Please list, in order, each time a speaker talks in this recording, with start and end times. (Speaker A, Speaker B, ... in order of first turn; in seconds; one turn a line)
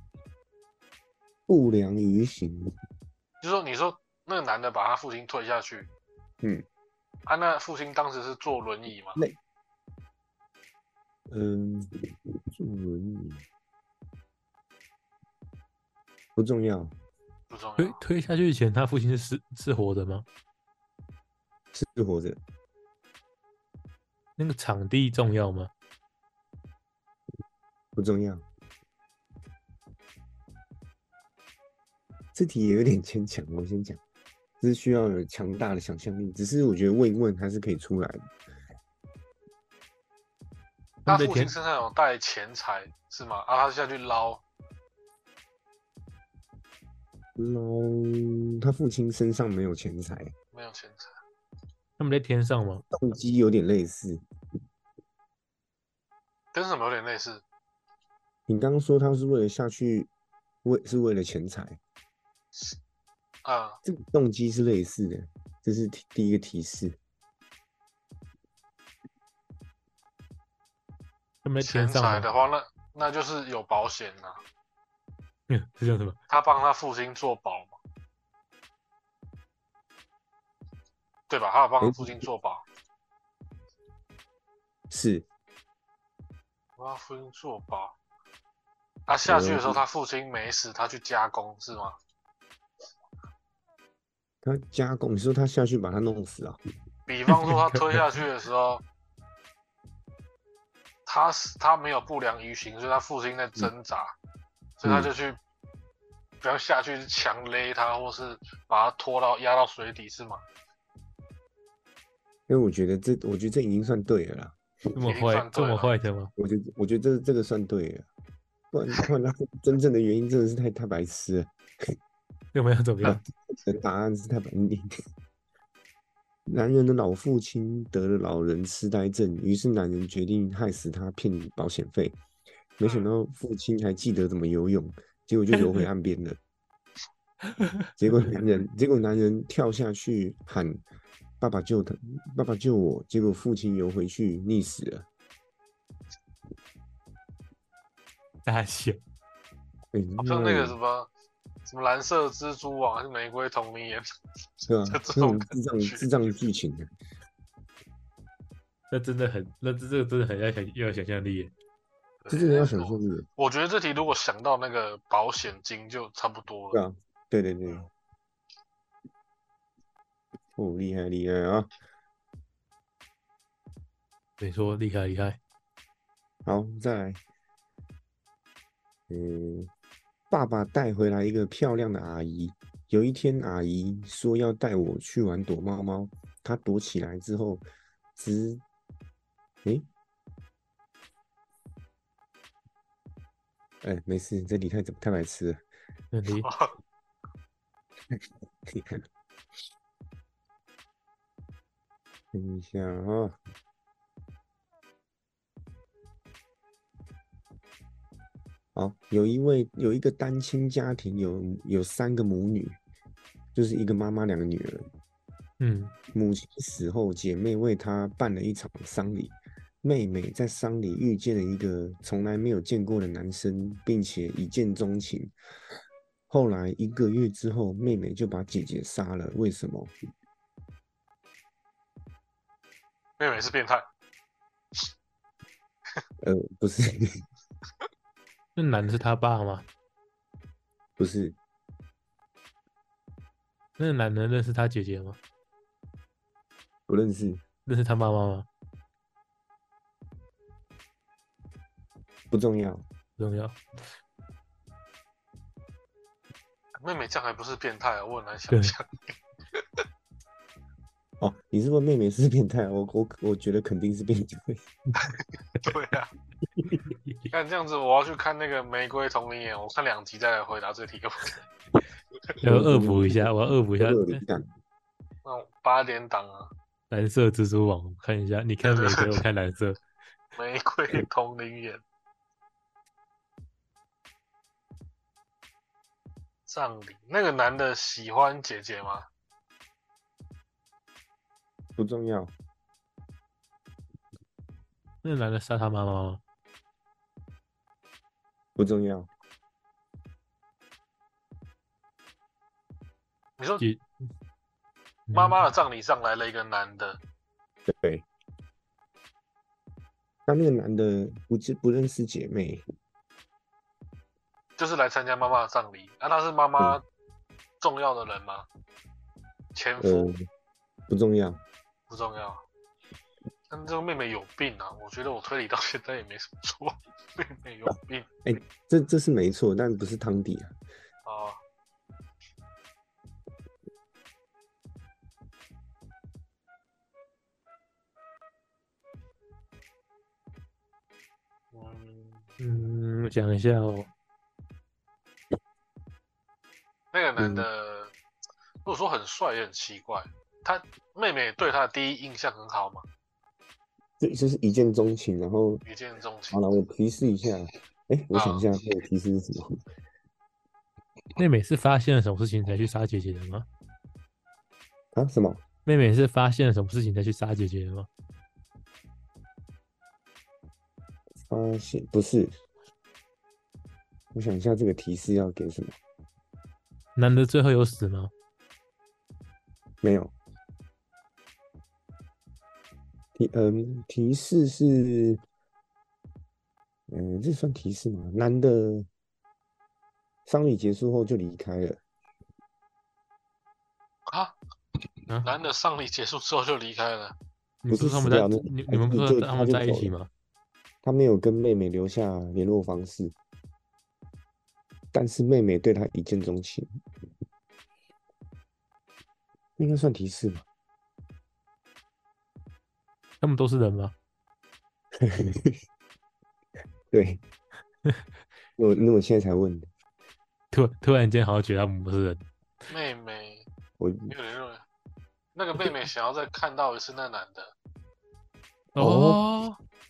Speaker A: 1.5-2.7
Speaker B: 3.4-5.9
Speaker B: 7.2-9.2
Speaker A: 11.3-13.4
Speaker A: 16.4-16.9
Speaker B: 17.5-18.0
Speaker C: 17.8-20.2
Speaker A: 21.7-22.4
Speaker C: 24.4-25.7
Speaker A: 27.9-28.4
Speaker A: 32.3-34.0
Speaker A: 34.6-38.3
Speaker C: 41.0-41.5
Speaker B: 41.1-44.4
Speaker A: 47.4-50.3
Speaker B: 50.5-51.1
Speaker C: 52.0-52.8
Speaker A: 52.9-54.2
Speaker B: 56.5-57.4
Speaker A: 58.5-60.1
Speaker A: 60.6-61.8
Speaker B: 63.4-63.8
Speaker A: 63.8-67.0
Speaker C: 71.4-72.3
Speaker B: 71.6-74.4
Speaker C: 75.5-76.2
Speaker B: 76.3-77.8
Speaker B: 81.3-82.6
Speaker A: 81.8-82.1
Speaker A: 84.9-85.3
Speaker B: 86.8-88.0
Speaker B: 89.1-91.9
Speaker A: 89.2-89.8
Speaker A: 94.4-96.6
Speaker B: 97.1-98.8
Speaker B: 101.0-104.1
Speaker B: 104.8-105.4
Speaker A: 104.8-105.1
Speaker B: 106.4-110.4
Speaker A: 112.5-114.5
Speaker C: 114.9-116.3
Speaker B: 115.0-115.9
Speaker A: 116.4-118.1
Speaker A: 118.7-121.9
Speaker C: 122.5-123.2
Speaker A: 123.0-124.9
Speaker A: 126.5-132.2
Speaker A: 132.8-136.4
Speaker C: 135.6-135.8
Speaker A: 138.0-140.8
Speaker A: 141.4-145.1
Speaker C: 148.4-149.0
Speaker A: 149.9-150.7
Speaker B: 150.2-151.1
Speaker B: 151.7-154.1
Speaker B: 154.6-156.1
Speaker A: 154.7-156.9
Speaker C: 158.9-161.5
Speaker B: 162.2-166.8
Speaker A: 162.3-163.2
Speaker A: 166.7-167.9
Speaker A: 170.6-171.7
Speaker C: 174.4-175.4
Speaker A: 176.4-177.2
Speaker A: 179.1-179.7
Speaker A: 180.3-187.6
Speaker A: 188.2-188.6
Speaker A: 193.8-195.6
Speaker C: 196.1-196.5
Speaker B: 196.4-196.7
Speaker A: 198.1-199.0
Speaker A: 202.3-203.4
Speaker A: 208.7-212.8
Speaker A: 213.5-214.8
Speaker C: 215.6-215.9
Speaker A: 216.1-225.3
Speaker A: 226.3-229.9
Speaker B: 233.2-233.9
Speaker A: 236.2-237.2
Speaker C: 238.6-239.6
Speaker A: 241.0-241.4
Speaker C: 243.8-245.2
Speaker A: 246.9-247.4
Speaker C: 247.7-248.5
Speaker A: 252.3-252.8
Speaker C: 253.2-253.6
Speaker B: 256.8-259.1
Speaker A: 261.2-264.6
Speaker B: 265.6-266.1
Speaker B: 267.3-271.4
Speaker A: 272.4-274.5
Speaker C: 272.4-274.2
Speaker B: 275.2-276.5
Speaker C: 276.9-279.8
Speaker B: 278.6-279.2
Speaker B: 280.4-281.8
Speaker B: 286.5-289.1
Speaker A: 291.8-292.3
Speaker C: 295.0-296.2
Speaker A: 298.6-299.1
Speaker B: 303.4-303.6
Speaker C: 305.1-305.5
Speaker B: 305.1-307.0
Speaker A: 307.7-308.1
Speaker A: 310.3-312.6
Speaker B: 314.6-316.8
Speaker B: 317.6-318.5
Speaker B: 319.5-320.1
Speaker A: 319.8-320.2
Speaker A: 320.9-321.4
Speaker B: 321.9-322.4
Speaker B: 323.5-328.1
Speaker A: 328.2-330.5
Speaker B: 331.0-331.4
Speaker B: 341.5-342.2
Speaker C: 342.4-343.9
Speaker B: 346.9-347.9
Speaker A: 347.2-347.5
Speaker B: 348.6-352.8
Speaker A: 354.0-355.6
Speaker B: 355.6-356.4
Speaker A: 356.3-359.5
Speaker B: 358.1-358.5
Speaker C: 361.2-363.5
Speaker A: 364.9-365.4
Speaker C: 365.6-367.9
Speaker A: 371.3-372.3
Speaker A: 374.1-375.7
Speaker C: 376.9-378.1
Speaker A: 379.8-380.1
Speaker A: 383.1-385.2
Speaker A: 386.9-388.9
Speaker A: 390.3-391.8
Speaker B: 394.1-394.4
Speaker B: 395.2-397.1
Speaker C: 397.6-400.1
Speaker A: 397.7-399.9
Speaker A: 400.8-403.1
Speaker A: 404.9-406.8
Speaker A: 409.6-410.4
Speaker C: 413.2-413.9
Speaker A: 415.0-415.6
Speaker A: 416.9-417.2
Speaker A: 418.6-419.7
Speaker C: 420.5-422.2
Speaker B: 422.7-423.5
Speaker A: 423.8-424.1
Speaker B: 424.1-424.6
Speaker B: 425.4-427.5
Speaker A: 428.7-429.2
Speaker C: 428.8-429.6